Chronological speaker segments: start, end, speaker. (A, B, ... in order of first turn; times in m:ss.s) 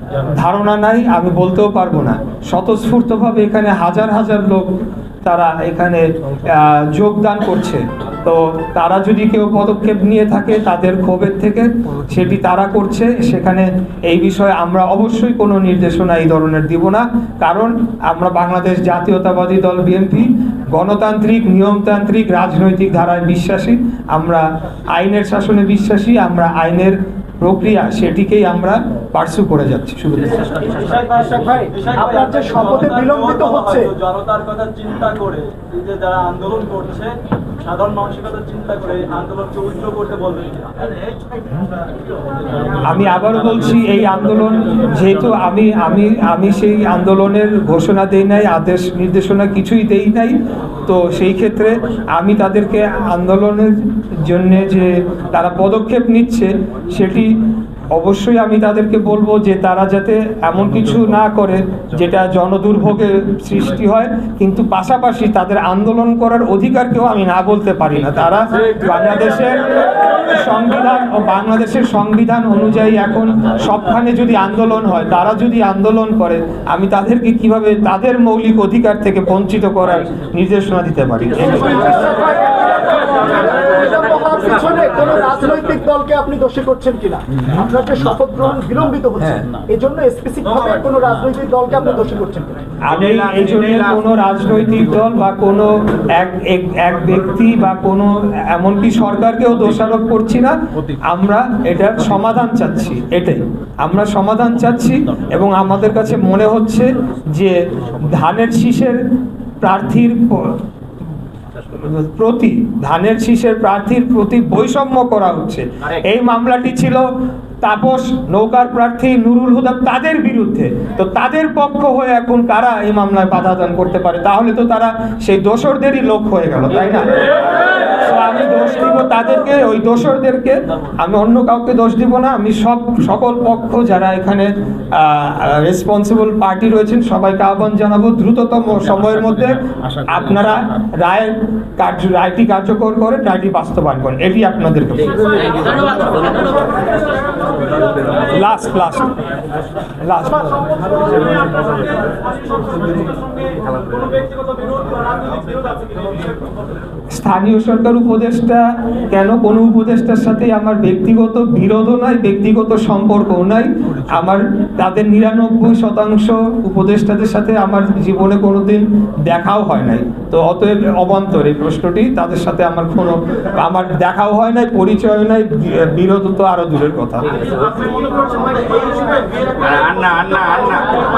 0:00.3-0:30.9 A
0:31.1-0:34.0 B
0:34.0-0:41.1 C
0:42.8-1:22.0 A
1:21.6-1:32.6 B
1:32.8-1:49.0 A
1:49.6-1:50.6 A
1:51.7-1:57.1 A
1:57.6-2:26.0 A
2:28.1-2:29.2 A
2:30.0-2:30.6 A
2:32.5-2:36.1 C
2:37.1-2:57.7 A
2:58.2-3:00.3 B
2:59.5-3:01.0 C